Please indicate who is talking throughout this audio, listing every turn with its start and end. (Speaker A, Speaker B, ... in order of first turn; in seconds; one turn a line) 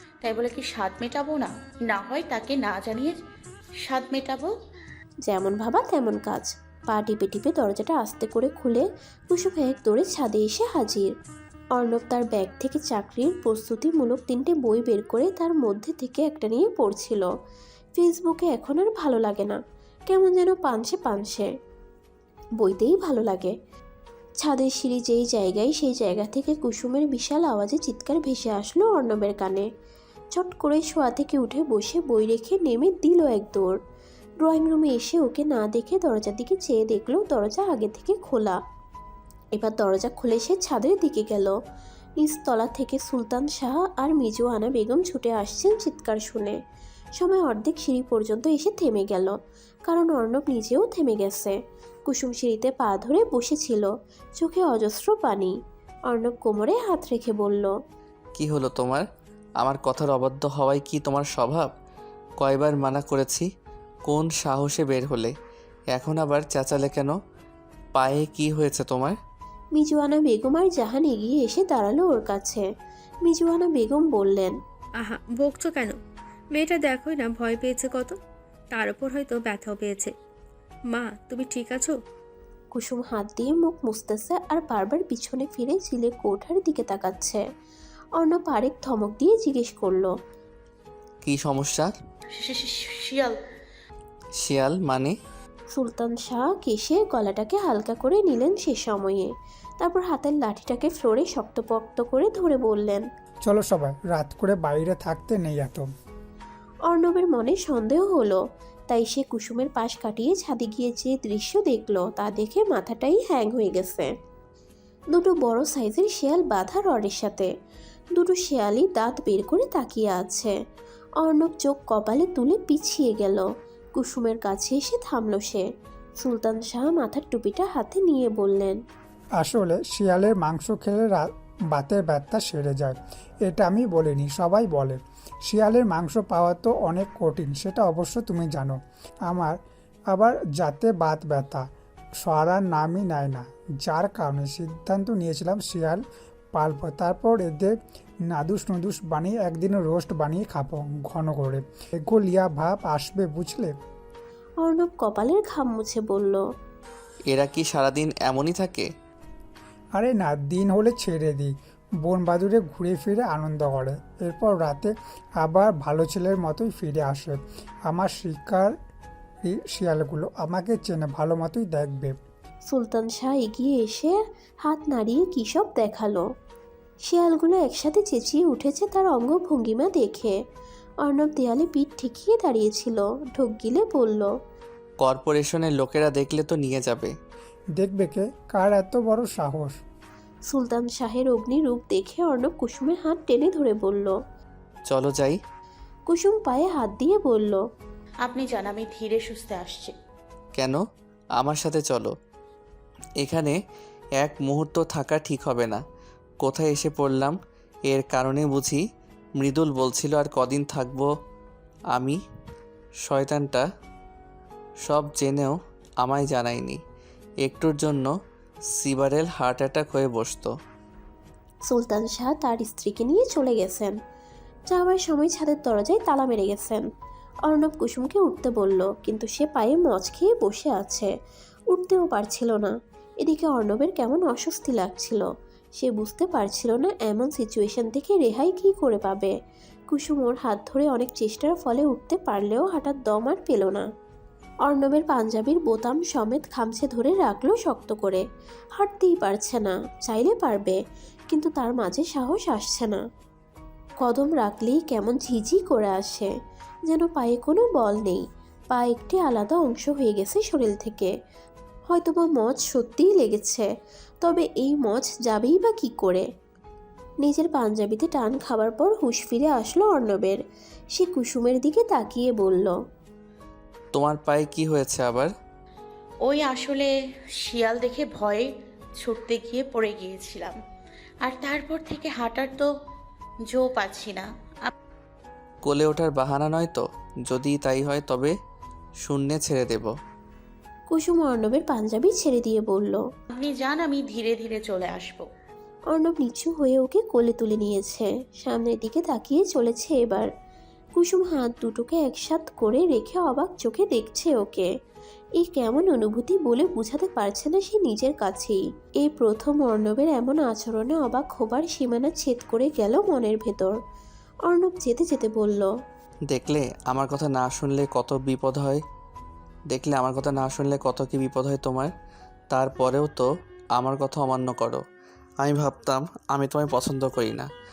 Speaker A: 0.2-3.2
Speaker A: 3.9-4.5
Speaker B: 5.3-11.1
Speaker B: 11.8-17.2
Speaker B: 18.0-19.6
Speaker B: 20.1-21.5
Speaker B: 22.6-23.5
Speaker B: 24.4-29.7
Speaker B: 30.3-33.8
Speaker B: 34.4-38.6
Speaker B: 39.5-41.5
Speaker B: 42.2-46.6
Speaker B: 47.2-49.3
Speaker B: 49.9-51.5
Speaker B: 52.1-55.5
Speaker B: 56.1-57.7
Speaker C: 58.4-59.0
Speaker C: 59.6-61.7
Speaker C: 62.4-63.5
Speaker C: 64.0-65.3
Speaker C: 65.9-67.1
Speaker C: 67.9-69.2
Speaker B: 69.8-72.6
Speaker B: 73.3-74.5
Speaker D: 75.0-76.0
Speaker D: 76.5-78.2
Speaker D: 78.7-80.1
Speaker D: 80.9-82.0
Speaker B: 82.7-87.4
Speaker B: 88.2-90.1
Speaker C: 91.2-91.9
Speaker A: 92.4-93.3
Speaker C: 94.4-95.1
Speaker B: 95.7-99.3
Speaker B: 99.8-103.0
Speaker E: 103.4-105.9
Speaker B: 106.9-108.4
Speaker B: 108.9-114.1
Speaker B: 115.1-117.5
Speaker B: 118.2-120.5
Speaker B: 121.2-123.4
Speaker B: 124.0-125.6
Speaker B: 126.2-128.8
Speaker E: 129.4-139.6
Speaker E: 140.1-141.6
Speaker E: 142.2-146.0
Speaker E: 146.5-147.8
Speaker E: 148.3-153.7
Speaker B: 154.6-156.4
Speaker C: 157.3-158.9
Speaker E: 159.9-161.5
Speaker E: 162.0-168.7
Speaker E: 169.4-172.2
Speaker B: 172.7-176.2
Speaker B: 177.1-180.3
Speaker B: 181.1-184.3
Speaker C: 185.0-187.1
Speaker E: 187.8-189.7
Speaker B: 190.5-194.2
Speaker C: 194.9-195.4
Speaker B: 196.1-197.6
Speaker A: 198.2-199.9
Speaker C: 201.4-202.1
Speaker C: 203.2-203.6
Speaker C: 204.2-205.8
Speaker C: 206.4-207.3
Speaker C: 207.9-208.8
Speaker C: 209.4-211.1
Speaker C: 213.0-213.7
Speaker C: 214.8-216.8
Speaker C: 217.4-218.1
Speaker C: 218.8-220.5
Speaker B: 221.7-223.9
Speaker B: 224.7-226.8
Speaker B: 227.5-231.1
Speaker B: 231.7-232.7
Speaker B: 233.2-235.2
Speaker B: 235.8-239.3
Speaker B: 239.9-243.8
Speaker B: 244.7-248.2
Speaker B: 248.8-250.8
Speaker B: 251.3-253.0
Speaker B: 254.0-256.3
Speaker B: 256.9-261.1
Speaker B: 261.9-263.7
Speaker B: 264.2-266.2
Speaker B: 267.2-270.4
Speaker B: 270.9-272.7
Speaker C: 273.9-275.3
Speaker A: 276.2-276.9
Speaker A: 277.4-278.4
Speaker A: 279.0-280.5
Speaker A: 281.2-282.7
Speaker A: 283.5-284.7
Speaker C: 285.6-288.3
Speaker C: 289.0-289.9
Speaker B: 290.9-293.0
Speaker A: 293.3-295.2
Speaker B: 295.9-300.2
Speaker B: 301.0-304.7
Speaker B: 305.4-313.7
Speaker B: 314.5-315.7
Speaker C: 316.3-318.8
Speaker C: 319.7-321.9
Speaker C: 322.5-324.8
Speaker C: 325.4-327.5